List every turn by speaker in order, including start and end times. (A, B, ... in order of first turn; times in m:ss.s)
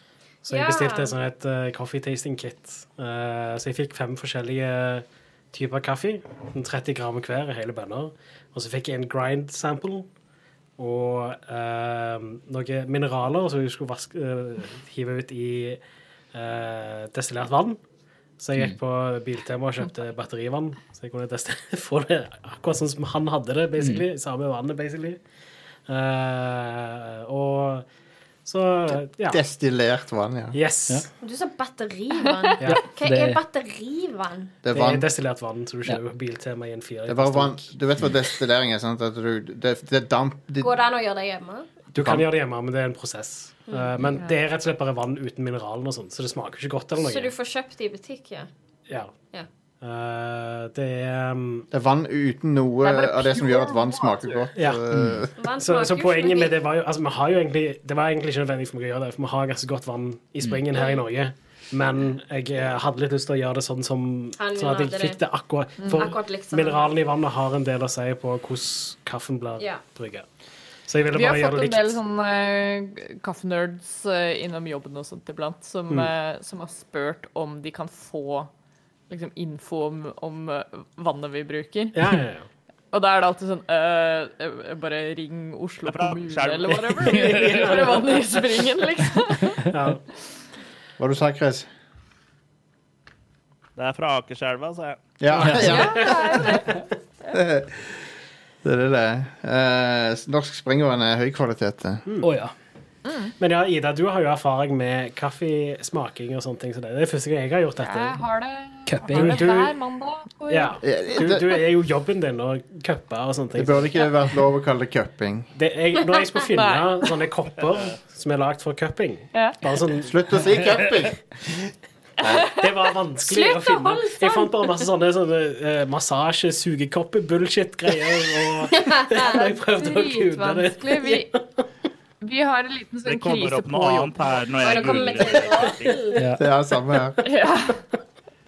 0:00.4-0:10.1 A
0:00.5-0:01.2 B
0:10.8-0:15.8 A
0:16.3-0:17.8 A
0:18.4-0:25.2 A
0:23.8-0:24.0 C
0:25.8-0:27.9 A
0:28.4-0:29.4 A
0:28.9-0:30.6 D
0:30.5-0:31.0 A
0:31.2-0:34.6 B
0:32.6-0:32.8 A
0:32.6-0:33.4 C
0:34.6-0:35.1 D
0:34.7-0:37.7 A
0:37.1-0:40.7 D
0:40.6-0:41.7 B
0:41.9-0:42.3 D
0:41.9-0:47.3 A
0:43.7-0:44.0 B
0:46.9-0:48.5 B
0:48.9-0:49.2 A
0:49.2-0:49.5 B
0:49.8-0:51.7 A
0:51.7-0:55.3 D
0:52.8-0:54.5 E
0:54.5-0:54.8 A
0:54.9-0:55.2 C
0:55.4-0:56.6 B
0:55.6-1:10.3 A
1:04.4-1:05.2 B
1:06.0-1:07.0 B
1:09.6-1:09.8 B
1:10.8-1:12.0 A
1:11.1-1:18.5 E
1:19.1-1:22.0 E
1:21.9-1:22.5 A
1:22.9-1:29.7 E
1:25.9-1:27.2 F
1:27.1-1:28.2 A
1:27.1-1:27.7 C
1:29.7-1:30.0 A
1:31.0-1:31.7 D
1:33.8-1:35.1 F
1:35.2-1:36.5 D
1:35.3-1:36.4 A
1:35.4-1:35.8 C
1:35.6-1:36.7 E
1:37.3-1:38.0 D
1:38.6-1:42.0 D
1:42.2-1:42.5 C
1:43.0-1:43.3 E
1:43.4-1:48.2 A
1:47.8-1:50.8 E
1:48.8-1:49.6 C
1:49.1-1:49.7 A
1:50.5-1:54.0 A
1:50.8-1:51.5 D
1:53.5-1:55.5 D
1:55.5-2:00.6 A
1:56.5-1:57.0 E
1:59.3-1:59.6 E
2:00.0-2:01.2 D
2:02.2-2:11.6 A
2:03.2-2:04.6 B
2:08.7-2:09.3 B
2:09.2-2:11.3 E
2:12.2-2:14.4 E
2:13.0-2:16.0 F
2:14.6-2:16.2 B
2:16.1-2:16.4 C
2:16.4-2:17.2 D
2:17.2-2:17.8 E